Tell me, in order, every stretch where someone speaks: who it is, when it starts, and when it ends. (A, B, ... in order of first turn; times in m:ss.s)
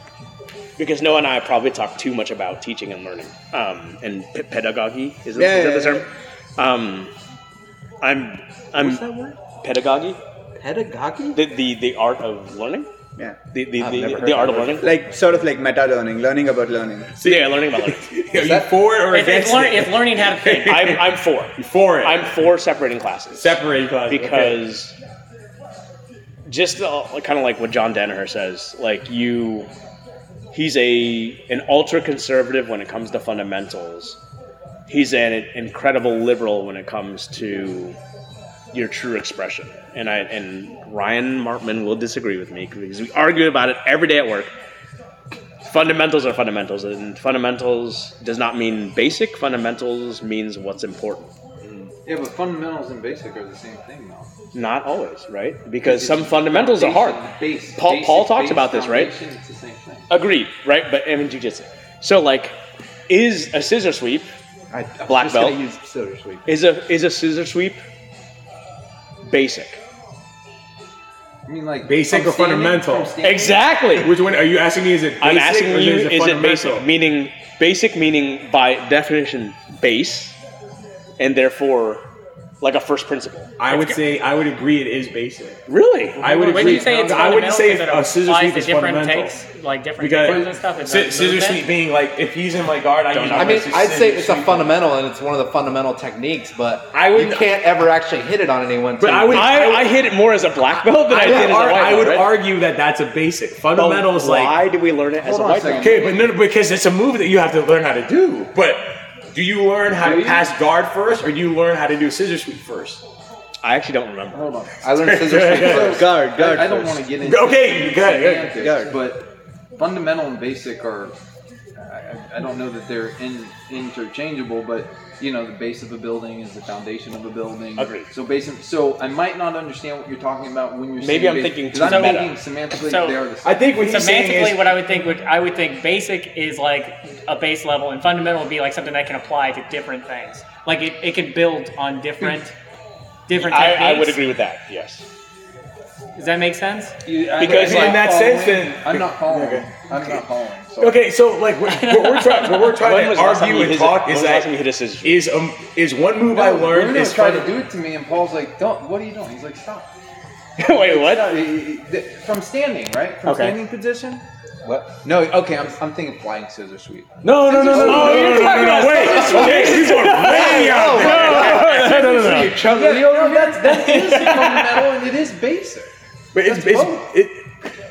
0:00.8-0:07.1 A
0:05.3-0:06.1 B
0:08.0-0:10.2 A
0:08.8-0:09.4 C
0:10.6-0:11.4 C
0:11.3-0:12.9 A
0:13.5-0:15.0 A
0:13.8-0:15.3 C
0:14.8-0:17.1 B
0:17.2-0:22.5 D
0:17.2-0:18.1 A
0:18.3-0:18.7 C
0:19.1-0:20.9 E
0:20.6-0:25.0 A
0:23.4-0:24.6 D
0:26.5-0:29.7 A
0:30.5-0:34.2 A
0:34.9-0:38.0 A
0:38.7-0:44.5 A
0:45.6-0:51.4 A
0:52.0-0:54.3 F
0:54.5-0:57.2 A
0:55.8-1:00.1 F
0:57.8-0:59.1 A
1:00.1-1:02.6 A
1:03.1-1:04.3 A
1:04.7-1:06.5 C
1:05.1-1:05.6 A
1:06.5-1:07.8 A
1:09.2-1:09.8 A
1:11.5-1:13.7 F
1:11.9-1:13.2 D
1:13.2-1:14.1 A
1:14.0-1:16.9 D
1:15.2-1:20.4 A
1:21.2-1:22.0 A
1:22.6-1:24.0 A
1:23.6-1:25.6 D
1:25.7-1:26.3 A
1:26.2-1:29.4 D
1:26.2-1:27.3 F
1:26.3-1:31.6 E
1:30.0-1:34.8 D
1:33.1-1:33.7 A
1:33.3-1:39.6 C
1:36.9-1:37.5 D
1:39.0-1:40.0 D
1:39.3-1:42.3 A
1:41.1-1:44.6 D
1:43.8-1:46.1 A
1:45.2-1:46.2 F
1:45.8-1:53.0 D
1:50.0-1:50.4 F
1:53.6-1:54.5 A
1:54.3-1:55.0 F
1:54.8-1:56.1 C
1:55.0-1:56.0 D
1:55.6-2:01.2 F
1:55.6-1:57.0 B
1:57.2-1:58.6 D
1:58.6-1:59.0 B
2:01.8-2:13.8 F
2:07.8-2:08.1 A
2:11.0-2:12.4 A
2:11.9-2:12.2 E
2:12.8-2:13.2 E
2:13.4-2:14.8 D
2:13.8-2:22.5 E
2:23.3-2:24.2 E
2:23.3-2:25.1 A
2:26.2-2:27.0 E
2:27.0-2:31.0 F
2:27.4-2:28.0 A
2:27.4-2:30.2 D
2:30.8-2:37.5 D
2:31.6-2:32.8 E
2:32.8-2:35.2 A
2:36.3-2:39.9 F
2:40.6-2:41.4 A
2:40.6-2:44.2 F
2:43.2-2:43.6 A
2:44.6-2:45.0 C
2:45.0-2:50.1 F
2:47.2-2:52.7 D
2:47.5-2:52.5 A
2:50.2-2:53.7 C
2:52.6-2:57.0 F
2:54.1-2:54.4 D
2:56.4-2:57.5 D